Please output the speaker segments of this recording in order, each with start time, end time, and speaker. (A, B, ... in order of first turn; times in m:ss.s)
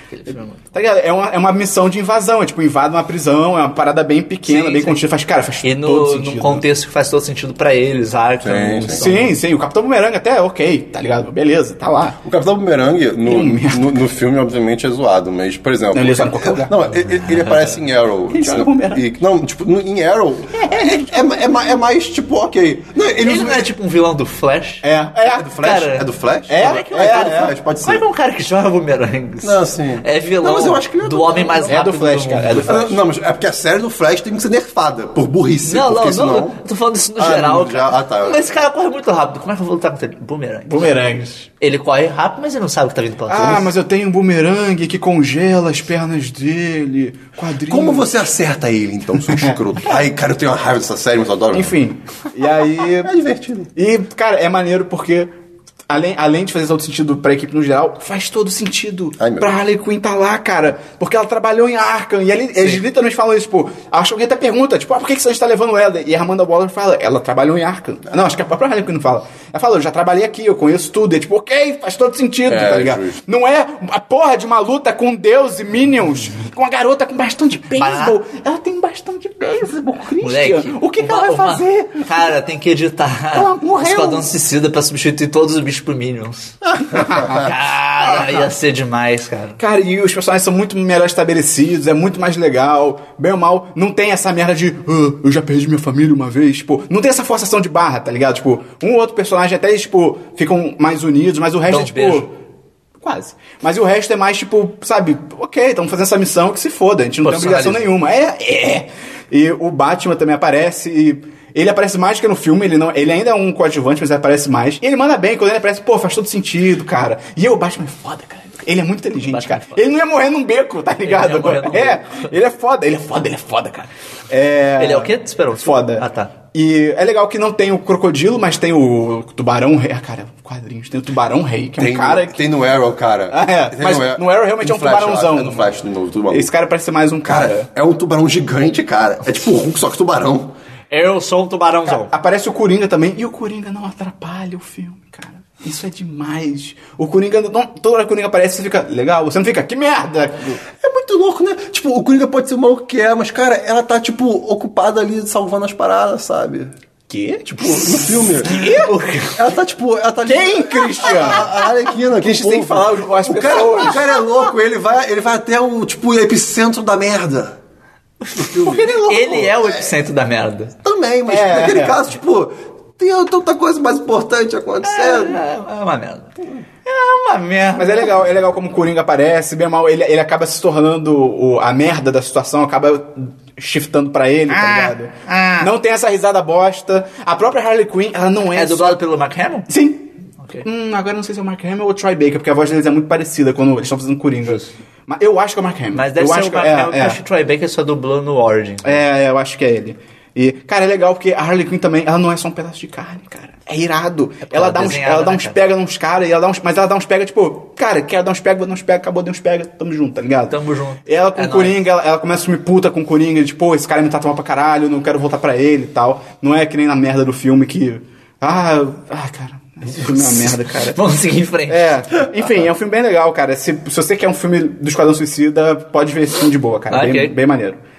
0:00.1-0:00.6 A
0:00.7-0:06.6 B
0:04.4-0:05.0 A
0:05.6-0:09.3 A
0:08.4-0:09.1 C
0:08.9-0:12.2 B
0:12.2-0:23.7 C
0:13.2-0:14.0 B
0:15.9-0:16.8 B
0:17.2-0:17.6 A
0:18.3-0:19.0 B
0:20.5-0:21.0 B
0:23.2-0:24.8 A
0:24.8-0:25.5 B
0:25.2-0:28.0 C
0:25.6-0:32.8 A
0:26.5-0:27.5 B
0:29.4-0:31.8 C
0:31.7-0:33.0 B
0:32.6-0:36.6 C
0:35.6-0:41.0 A
0:37.2-0:38.6 C
0:40.7-0:41.5 B
0:41.6-0:43.7 A
0:43.3-0:48.1 B
0:47.7-0:51.8 C
0:49.3-0:49.6 B
0:51.5-0:53.1 B
0:53.0-0:53.7 C
0:53.8-0:55.3 B
0:55.9-1:22.1 B
0:59.2-0:59.5 C
1:12.4-1:13.2 C
1:17.7-1:18.2 A
1:20.2-1:29.6 A
1:23.3-1:24.3 B
1:27.0-1:27.4 B
1:28.0-1:28.5 B
1:29.6-1:42.3 B
1:41.7-1:42.3 A
1:43.0-2:12.4 B
1:47.2-1:47.8 A
1:59.2-1:59.8 A
2:01.0-2:02.3 A
2:04.8-2:06.3 A
2:11.8-2:16.5 C
2:13.3-2:15.7 B
2:16.3-2:17.7 B
2:17.2-2:20.5 C
2:20.9-2:22.1 A
2:21.9-2:30.6 B
2:30.8-2:36.7 C
2:37.1-2:38.9 B
2:37.5-2:38.6 C
2:37.6-2:39.4 A
2:39.3-2:47.6 C
2:40.2-2:41.5 B
2:42.1-2:44.3 B
2:48.2-2:50.7 A
2:48.3-2:49.9 C
2:50.8-2:55.4 C
2:51.3-2:52.0 B
2:54.8-2:56.3 A
2:56.8-2:58.1 A
2:57.8-3:09.0 B
3:04.5-3:05.7 A
3:08.5-3:09.7 A
3:09.7-3:10.1 B
3:10.6-3:17.2 B
3:15.9-3:19.0 A
3:18.8-3:30.6 B
3:24.4-3:25.6 A
3:30.5-3:31.8 A
3:31.1-3:41.0 B
3:39.9-3:42.0 A
3:41.7-3:47.8 B
3:46.9-3:47.3 A